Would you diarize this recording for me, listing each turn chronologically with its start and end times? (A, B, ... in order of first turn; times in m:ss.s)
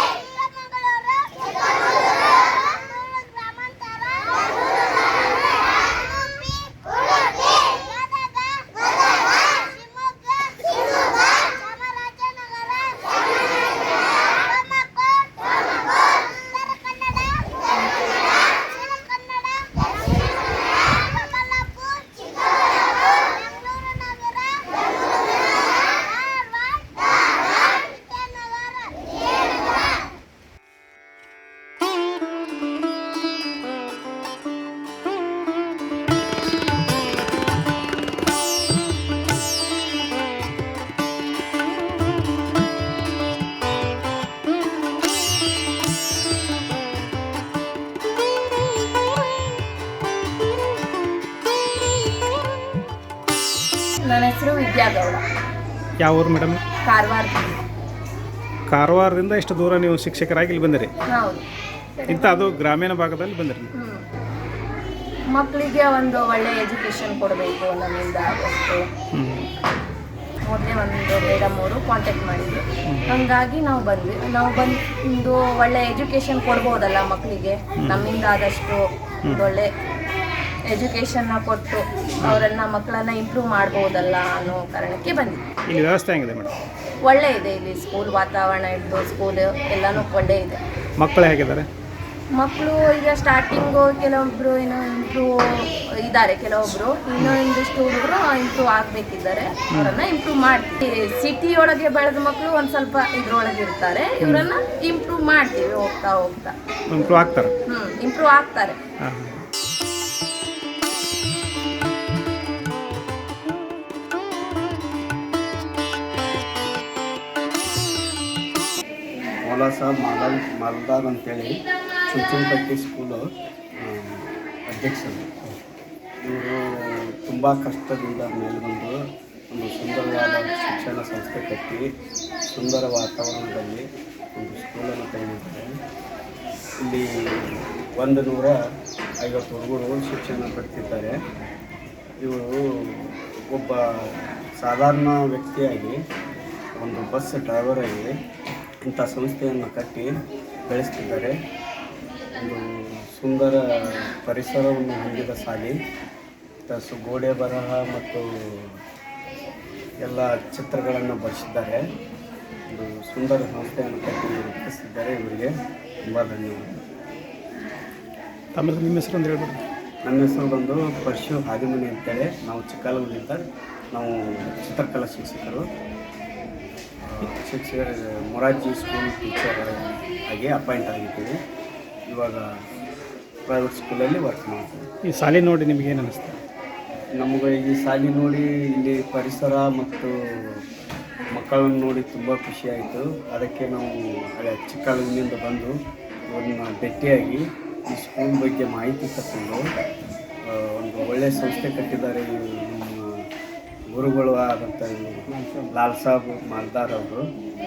0:54.1-0:55.2 A
0:56.0-0:56.6 B
0:56.8-0:57.6 A
0:58.7-1:00.9 B
1:01.1-1:01.5 A
1:02.0-1:02.5 A
1:02.1-1:03.7 B
1:03.8-1:04.0 A
1:05.3-1:08.9 A
1:09.1-1:09.5 B
1:10.4-1:19.7 A
1:12.9-1:13.2 B
1:17.8-1:18.1 B
1:20.7-1:25.4 A
1:25.7-1:26.6 B
1:27.0-1:30.6 A
1:31.0-1:31.7 B
1:32.3-1:46.5 A
1:39.7-1:40.0 B
1:46.9-1:47.5 B
1:47.7-1:48.8 A
1:49.0-1:49.4 B
1:59.4-2:03.3 C
2:03.8-2:05.3 C
2:06.2-2:09.0 C
2:09.5-2:11.8 C
2:12.5-2:15.7 C
2:16.8-2:18.6 C
2:19.2-2:21.2 C
2:22.2-2:26.0 C
2:26.8-2:28.1 C
2:28.8-2:30.1 C
2:30.7-2:31.4 C
2:32.4-2:35.8 C
2:36.7-2:38.7 C
2:40.0-2:41.8 C
2:42.7-2:45.5 C
2:46.1-2:46.7 C
2:48.6-2:49.6 B
2:50.0-2:55.6 C
2:57.1-3:01.3 C
3:02.1-3:02.4 C
3:03.5-3:04.8 C
3:05.0-3:06.4 B
3:07.2-3:10.6 C
3:11.3-3:15.8 C
3:16.3-3:19.6 C
3:20.5-3:23.1 C
3:23.9-3:27.2 C